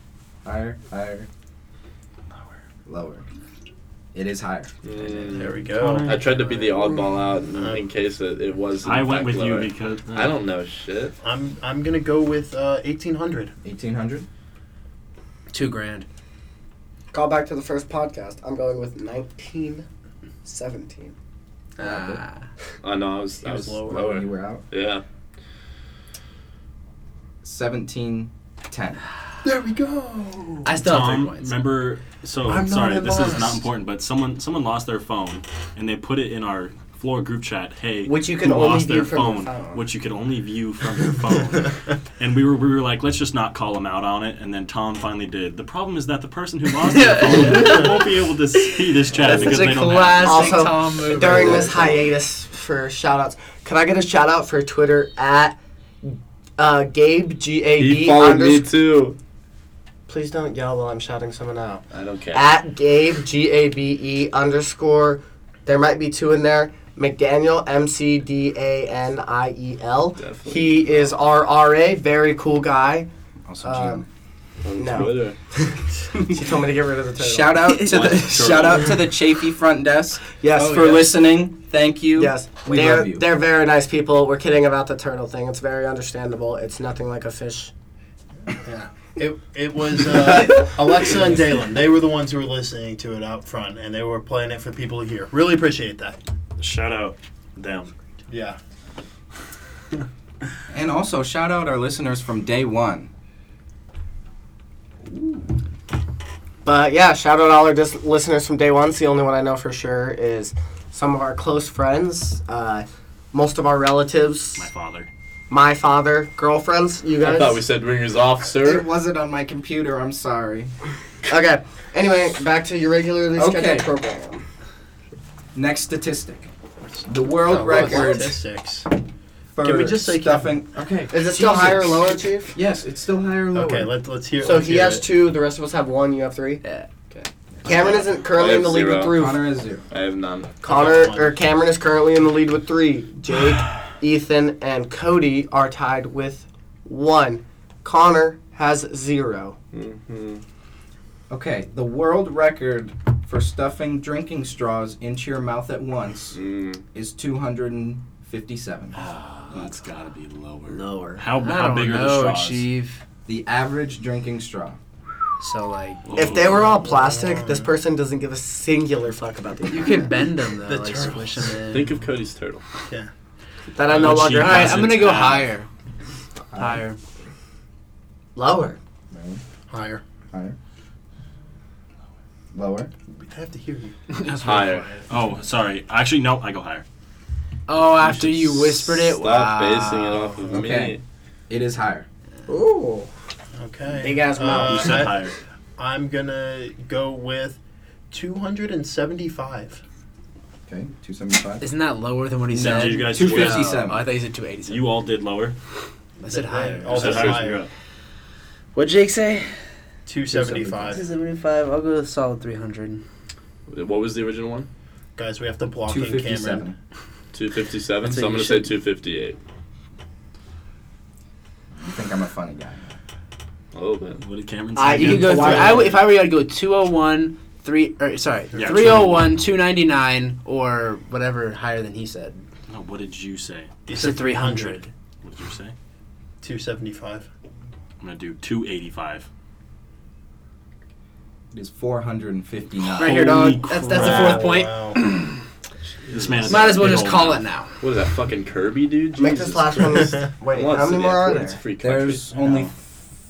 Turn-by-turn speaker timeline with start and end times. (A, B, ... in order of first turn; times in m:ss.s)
0:00.4-0:01.3 A
0:02.8-0:03.2 A
0:04.1-0:04.7 A
0:04.8-0:11.1 B
0:05.3-0:07.9 C
0:05.8-0:06.2 D
0:08.8-0:10.3 D
0:11.2-0:13.5 C
0:13.6-0:14.3 A
0:15.5-0:16.0 E
0:17.1-0:19.8 F
0:20.4-0:21.1 F
0:21.8-0:22.4 E
0:21.8-0:22.2 A
0:22.8-0:25.0 B
0:23.4-0:24.1 C
0:23.9-0:24.6 A
0:27.4-0:29.0 A
0:29.4-0:31.2 C
0:30.6-0:31.5 E
0:30.8-0:50.7 D
0:32.4-0:33.6 C
0:38.0-0:39.8 F
0:46.8-0:51.8 E
0:49.2-0:49.5 B
0:50.2-0:58.7 F
0:51.2-0:52.0 B
0:57.8-0:59.2 B
1:00.1-1:13.1 F
1:01.9-1:02.5 B
1:10.2-1:11.0 B
1:13.5-1:14.0 A
1:13.6-1:14.0 F
1:14.6-1:15.4 B
1:14.7-1:17.7 F
1:17.2-1:23.3 A
1:17.6-1:18.6 E
1:17.8-1:19.0 D
1:20.4-1:21.2 F
1:22.1-1:27.7 F
1:28.5-1:36.2 C
1:36.6-1:37.9 D
1:38.3-1:38.6 C
1:40.7-1:43.1 A
1:46.6-1:54.7 F
1:54.6-1:55.1 D
1:55.5-1:57.7 F
1:57.2-1:58.8 B
1:58.6-2:00.7 A
2:01.3-2:04.4 F
2:03.4-2:03.9 A
2:05.5-2:06.5 A
2:07.0-2:08.4 A
2:07.2-2:08.9 C
2:09.5-2:13.9 A
2:09.6-2:10.6 C
2:11.1-2:12.6 F
2:13.5-2:15.0 C
2:14.4-2:16.6 F
2:16.6-2:16.9 E
2:17.6-2:19.5 F
2:17.7-2:19.2 B
2:19.1-2:19.8 A
2:19.9-2:20.6 B
2:20.6-2:29.6 F
2:20.6-2:21.4 C
2:29.7-2:30.4 B
2:31.3-2:36.4 A
2:36.3-2:36.8 B
2:36.9-2:39.7 A
2:38.9-2:42.7 D
2:40.7-2:41.2 F
2:41.4-2:43.0 E
2:43.2-2:44.8 A
2:45.4-2:46.0 E
2:46.0-2:46.9 D
2:46.1-2:50.1 F
2:46.8-2:47.7 C
2:49.7-2:51.9 E
2:50.6-2:51.6 C
2:51.7-2:52.6 B
2:53.7-2:54.9 F
2:53.8-2:55.5 D
2:53.9-2:55.7 E
2:56.5-2:56.8 A
2:56.6-2:57.0 E
2:58.3-2:58.8 F
2:59.1-2:59.4 A
2:59.7-3:00.0 C
3:02.5-3:02.9 A
3:03.1-3:04.0 C
3:04.1-3:05.0 E
3:04.4-3:05.0 B
3:05.1-3:06.8 D
3:07.7-3:10.5 E
3:08.7-3:11.0 B
3:10.5-3:11.0 A
3:11.5-3:12.1 A
3:12.5-3:13.1 F
3:13.6-3:17.6 C
3:13.9-3:15.1 F
3:14.4-3:15.4 D
3:18.1-3:19.8 C
3:20.7-3:21.7 A
3:21.6-3:24.9 E
3:22.5-3:23.9 D
3:22.6-3:24.0 A
3:24.6-3:25.5 D
3:26.2-3:27.4 E
3:26.3-3:27.7 C
3:26.8-3:27.7 D
3:28.7-3:29.6 E
3:30.0-3:31.0 C
3:30.3-3:31.0 A
3:30.9-3:33.0 E
3:33.7-3:34.7 B
3:35.2-3:36.7 C
3:35.8-3:36.8 A
3:37.3-3:39.4 B
3:38.0-3:38.7 E
3:41.8-3:42.9 A
3:43.7-3:44.2 B
3:44.2-3:45.9 D
3:44.7-3:46.0 F
3:44.9-3:52.4 E
3:45.1-3:45.8 C
3:48.5-3:49.2 C
3:48.5-3:49.2 D
3:52.7-3:53.7 D
3:53.9-3:54.9 C
3:53.9-3:54.9 E
3:55.2-3:55.7 D
3:56.4-3:57.3 C
3:58.0-3:59.2 D
4:01.5-4:03.3 A
4:02.9-4:04.5 D
4:03.0-4:05.4 E
4:03.9-4:05.0 C
4:04.0-4:04.3 F
4:06.1-4:07.4 D
4:06.4-4:07.7 E
4:07.8-4:12.2 B
4:09.2-4:11.6 F
4:11.8-4:13.0 A
4:12.3-4:12.7 D